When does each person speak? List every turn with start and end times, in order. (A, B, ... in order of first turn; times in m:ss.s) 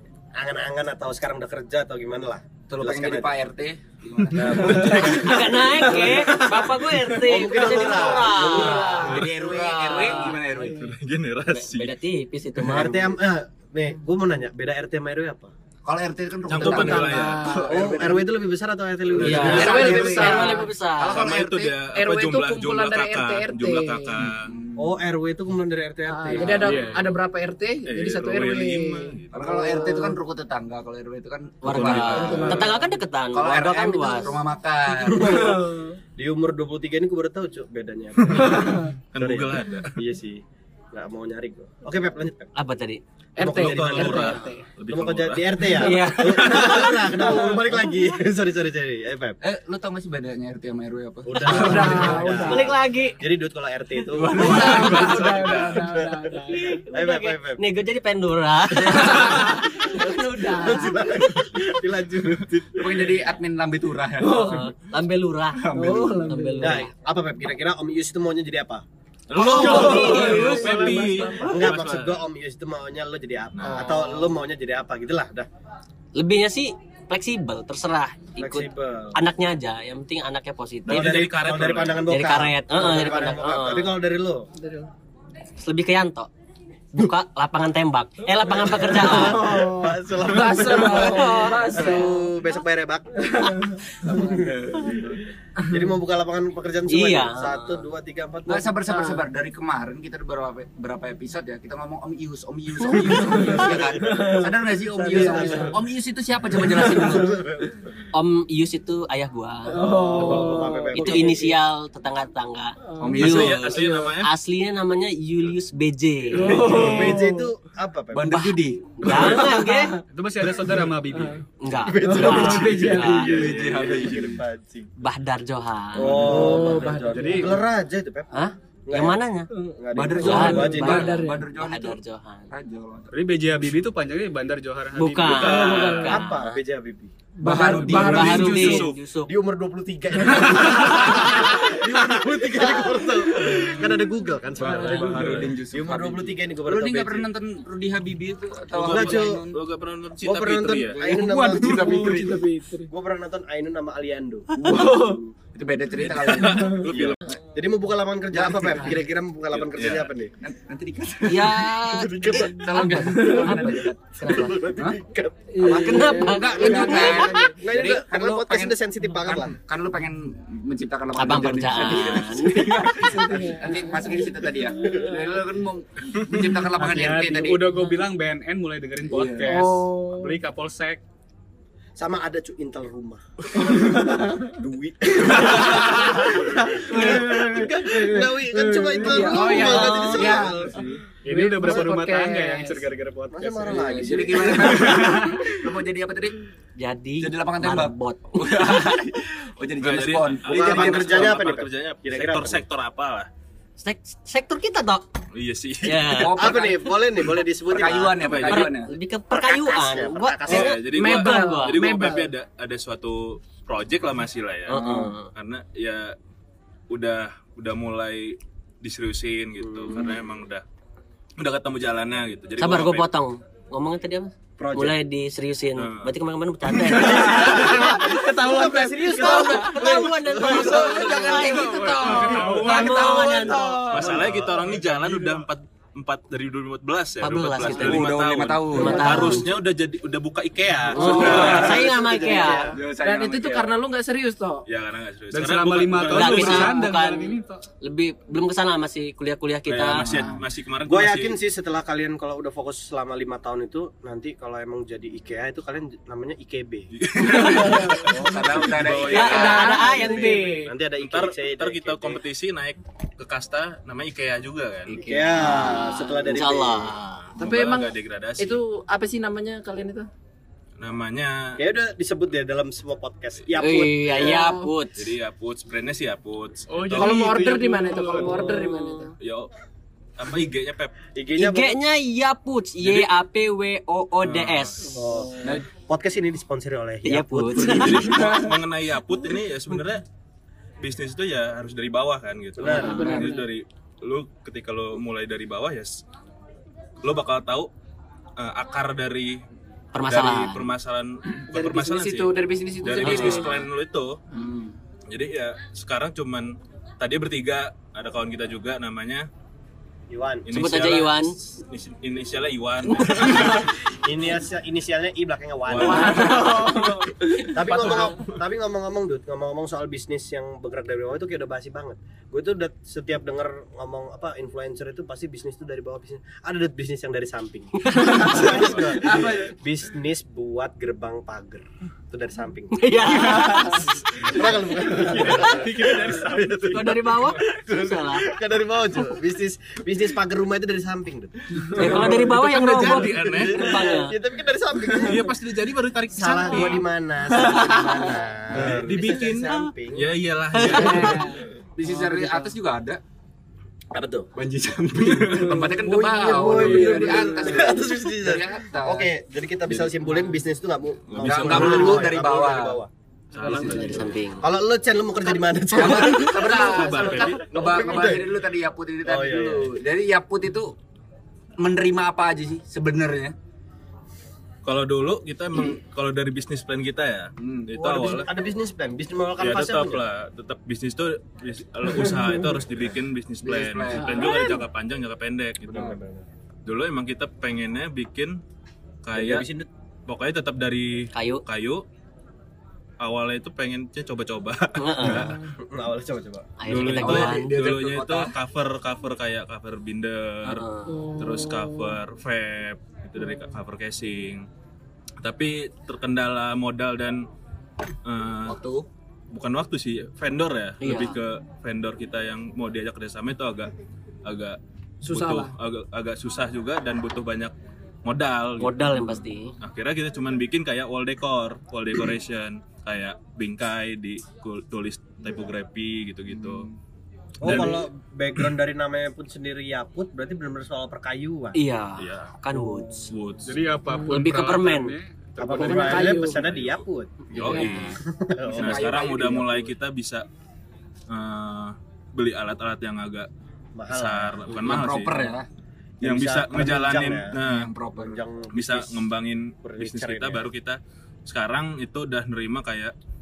0:00.4-0:03.3 A
0:02.7-0:06.1 B
0:04.4-0:05.2 A
0:05.1-0:10.4 C
0:07.2-0:09.2 A
0:08.4-0:10.9 B
0:08.5-0:09.2 D
0:10.5-0:10.8 D
0:10.7-0:11.9 E
0:11.5-0:13.1 C
0:12.6-0:15.5 A
0:15.8-0:18.3 B
0:16.5-0:17.5 E
0:16.6-0:17.8 D
0:17.7-0:20.5 A
0:19.1-0:19.6 E
0:19.2-0:21.7 B
0:19.2-0:21.2 C
0:19.5-0:20.7 D
0:21.1-0:24.5 E
0:21.9-0:24.2 D
0:24.2-0:25.0 B
0:24.8-0:26.8 A
0:26.1-0:30.2 D
0:26.3-0:26.8 B
0:26.6-0:27.1 F
0:27.9-0:29.4 E
0:29.3-0:32.8 B
0:31.6-0:34.4 C
0:31.7-0:32.4 E
0:32.1-0:33.0 D
0:33.3-0:35.6 B
0:35.0-0:42.5 A
0:35.3-0:35.9 D
0:38.3-0:40.0 E
0:42.5-0:43.0 C
0:43.4-0:44.6 D
0:43.4-0:49.4 A
0:43.5-0:47.3 E
0:45.7-0:46.9 C
0:49.4-0:52.6 B
0:51.2-0:55.1 A
0:51.4-0:52.8 D
0:52.5-0:53.2 C
0:54.1-0:55.7 B
0:54.3-0:55.9 E
0:54.3-0:56.8 D
0:56.0-0:57.6 A
0:56.6-1:01.1 C
0:58.9-1:01.0 D
1:00.5-1:03.2 A
1:02.8-1:04.6 B
1:04.2-1:04.6 D
1:04.3-1:05.7 C
1:05.6-1:06.5 B
1:05.7-1:06.8 D
1:06.2-1:06.9 C
1:06.6-1:08.8 A
1:09.3-1:12.2 E
1:09.4-1:15.5 A
1:09.4-1:11.5 D
1:09.5-1:10.9 C
1:09.6-1:10.5 B
1:10.6-1:11.2 F
1:13.5-1:14.0 E
1:16.1-1:21.2 C
1:18.4-1:19.2 A
1:20.8-1:22.1 E
1:20.9-1:24.5 A
1:22.0-1:23.9 C
1:24.6-1:24.9 D
1:25.6-1:26.3 C
1:26.9-1:29.6 C
1:28.7-1:33.3 A
1:29.1-1:32.3 D
1:30.7-1:32.0 C
1:33.2-1:34.1 D
1:34.0-1:35.1 A
1:34.1-1:35.2 B
1:35.6-1:38.7 A
1:36.9-1:37.8 C
1:38.4-1:47.4 B
1:38.9-1:39.2 D
1:43.1-1:44.5 D
1:43.5-1:44.4 A
1:44.9-1:45.7 A
1:45.0-1:45.7 D
1:46.7-1:47.7 A
1:46.9-1:47.3 D
1:48.1-1:56.8 C
1:49.7-1:51.3 D
1:49.8-1:51.5 A
1:52.9-1:53.2 D
1:53.0-1:53.8 B
1:53.2-1:54.3 E
1:56.3-1:57.5 D
1:56.5-1:58.4 A
1:56.5-1:56.9 E
1:58.1-1:59.5 B
1:58.3-2:00.0 C
1:59.4-2:00.0 D
2:00.0-2:01.5 F
2:01.1-2:01.4 D
2:01.6-2:03.3 C
2:01.9-2:04.9 A
2:02.0-2:03.3 D
2:02.0-2:04.4 B
2:03.1-2:04.2 E
2:05.0-2:06.9 C
2:06.0-2:06.7 B
2:06.0-2:09.2 A
2:06.1-2:07.6 D
2:07.0-2:07.6 F
2:08.3-2:09.5 C
2:09.5-2:11.4 D
2:09.8-2:11.1 A
2:09.9-2:13.1 B
2:10.1-2:12.5 C
2:13.1-2:15.9 F
2:14.9-2:16.6 C
2:15.2-2:16.1 E
2:15.4-2:16.2 D
2:16.0-2:17.1 A
2:17.4-2:18.8 D
2:17.4-2:18.9 B
2:17.7-2:19.3 C
2:18.2-2:19.0 E
2:19.3-2:27.3 A
2:21.0-2:21.4 D
2:23.4-2:23.7 B
2:24.6-2:25.5 F
2:24.6-2:29.6 B
2:28.7-2:31.0 E
2:28.7-2:29.4 A
2:30.2-2:34.5 A
2:30.9-2:32.1 B
2:31.3-2:32.9 D
2:31.5-2:32.2 F
2:34.6-2:36.9 B
2:34.7-2:35.2 D
2:36.0-2:37.2 E
2:36.5-2:36.8 D
2:36.9-2:40.3 A
2:38.3-2:38.9 B
2:39.5-2:40.1 E
2:40.4-2:45.0 B
2:41.2-2:44.5 C
2:41.9-2:43.7 A
2:42.8-2:43.7 D
2:44.2-2:49.6 A
2:45.5-2:47.6 D
2:45.6-2:57.7 B
2:45.6-2:47.3 C
2:51.2-2:52.9 C
2:53.0-2:55.2 D
2:56.7-3:01.0 F
2:57.7-2:58.0 D
2:59.1-2:59.6 B
2:59.4-3:00.4 D
3:02.0-3:10.9 A
3:03.8-3:04.1 D
3:05.3-3:05.9 B
3:06.9-3:12.9 D
3:09.0-3:10.0 B
3:09.3-3:10.4 C
3:11.2-3:15.6 F
3:11.6-3:11.9 A
3:13.3-3:15.2 A
3:13.6-3:16.4 B
3:16.8-3:18.6 C
3:17.2-3:21.4 B
3:19.8-3:23.3 E
3:20.5-3:22.6 A
3:23.8-3:25.0 C
3:25.3-3:26.3 E
3:25.8-3:26.6 C
3:26.0-3:26.9 B
3:26.3-3:28.4 A
3:27.6-3:28.9 B
3:28.2-3:28.7 E
3:28.5-3:32.0 C
3:29.3-3:30.8 A
3:30.4-3:36.2 E
3:30.9-3:32.3 D
3:34.7-3:35.3 C
3:34.7-3:35.1 B
3:36.9-3:40.6 E
3:39.6-3:40.1 A
3:41.4-3:43.1 E
3:42.6-3:54.1 C
3:44.6-3:44.9 B
3:45.8-3:46.1 E
3:47.2-3:51.7 A
3:48.1-3:48.8 D
3:48.5-3:49.1 F
3:49.4-3:54.5 B
3:51.8-3:53.5 F
3:53.9-4:01.7 E
3:54.0-3:54.3 A
3:57.2-3:58.0 C
3:57.7-3:59.4 B
3:58.7-3:59.6 C
4:00.9-4:03.7 B
4:00.9-4:02.8 C
4:01.0-4:02.8 A
4:03.0-4:04.6 D
4:04.7-4:06.7 E
4:05.3-4:07.6 F
4:06.1-4:10.1 C
4:09.7-4:11.4 E
4:09.9-4:10.4 B
4:10.9-4:16.9 A
4:16.9-4:19.9 E
4:17.3-4:19.7 B
4:17.5-4:18.1 D
4:18.2-4:18.6 A
4:19.0-4:20.7 C
4:19.2-4:20.7 D
4:19.9-4:22.2 A
4:21.0-4:25.0 E
4:24.9-4:27.3 C
4:24.9-4:26.9 A
4:27.4-4:30.1 D
4:27.4-4:28.6 E
4:30.8-4:31.6 E
4:31.6-4:34.4 A
4:33.5-4:35.1 C
4:34.2-4:34.7 D
4:35.0-4:37.6 E
4:36.7-4:38.4 F
4:36.9-4:39.1 D
4:38.4-4:39.1 C
4:39.2-4:39.5 E
4:40.2-4:40.9 E
4:41.1-4:41.8 A
4:41.4-4:45.1 C
4:42.8-4:43.1 E
4:44.2-4:45.0 E
4:44.9-4:47.8 A
4:45.0-4:45.4 D
4:47.0-4:48.3 C
4:47.6-4:50.0 E
4:47.6-4:48.5 B
4:50.8-4:56.0 E
4:52.6-4:53.0 A
4:52.6-4:53.5 D
4:52.7-4:53.2 C
4:53.0-4:53.3 B
4:57.0-4:57.7 E
4:58.4-4:59.4 E
4:59.9-5:00.7 C
5:00.0-5:04.2 E
5:01.5-5:03.6 D
5:03.0-5:03.6 C
5:04.3-5:04.8 B
5:05.1-5:09.3 E
5:10.1-5:10.5 A
5:10.5-5:13.7 E
5:10.5-5:11.4 C
5:13.4-5:45.3 A
5:15.6-5:18.3 E
5:15.8-5:17.5 D
5:27.9-5:28.6 C
5:28.3-5:29.1 E
5:32.7-5:33.9 C
5:35.0-5:36.6 F
5:36.7-5:38.2 C
5:41.8-5:44.2 C
5:41.9-5:43.8 E
5:44.9-5:46.9 E
5:46.1-5:50.1 A
5:47.4-5:48.3 C
5:48.5-5:51.4 E
5:48.5-5:48.8 B
5:50.6-5:51.2 C
5:50.6-5:52.5 D
5:50.6-5:51.1 B
5:51.8-5:53.0 B
5:53.9-5:54.3 A
5:54.3-5:59.1 B
5:55.0-5:55.6 E
5:55.4-5:57.7 D
5:56.3-6:02.9 A
6:01.1-6:02.1 E
6:01.2-6:02.8 B
6:03.3-6:03.8 E
6:03.4-6:04.0 B
6:03.4-6:04.1 D
6:03.7-6:04.4 C
6:04.4-6:08.3 A
6:05.7-6:10.8 B
6:05.9-6:07.8 E
6:09.0-6:09.7 A
6:11.6-6:13.3 B
6:14.6-6:18.3 E
6:17.4-6:17.7 B
6:17.8-6:20.0 A
6:19.4-6:26.0 E
6:23.4-6:24.3 B
6:24.0-6:24.6 D
6:25.7-6:26.2 A
6:26.6-6:28.4 E
6:29.0-6:29.5 E
6:29.1-6:29.7 A
6:30.1-6:31.8 E
6:31.1-6:31.4 C
6:33.0-6:35.4 E
6:34.8-6:35.4 C
6:35.6-6:36.5 A
6:36.6-6:37.5 C
6:36.6-6:44.5 E
6:37.0-6:38.3 B
6:40.4-6:41.2 C
6:40.9-6:42.0 D
6:45.2-6:47.3 E
6:48.0-6:48.6 E
6:48.5-6:48.9 B
6:49.3-6:53.7 E
6:50.8-6:51.2 C
6:54.2-6:57.5 E
6:55.0-6:55.5 D
6:58.0-7:06.7 E
6:58.6-6:59.5 C
7:06.3-7:06.7 B
7:07.4-7:11.6 A
7:07.4-7:07.8 E
7:11.5-7:13.1 C
7:12.0-7:12.4 E
7:13.1-7:13.6 E
7:13.4-7:16.3 F
7:13.9-7:14.2 D
7:14.1-7:15.0 C
7:15.4-7:18.8 A
7:15.6-7:16.4 D
7:16.2-7:18.0 E
7:17.4-7:17.9 C
7:17.5-7:17.7 D
7:18.5-7:19.7 B
7:18.5-7:20.2 E
7:21.1-7:23.3 E
7:23.8-7:24.5 A
7:23.9-7:25.3 E
7:24.5-7:25.5 B
7:26.0-7:27.4 A
7:26.0-7:27.7 E
7:26.5-7:28.2 B
7:27.9-7:29.0 A
7:28.5-7:32.9 E
7:29.6-7:30.5 A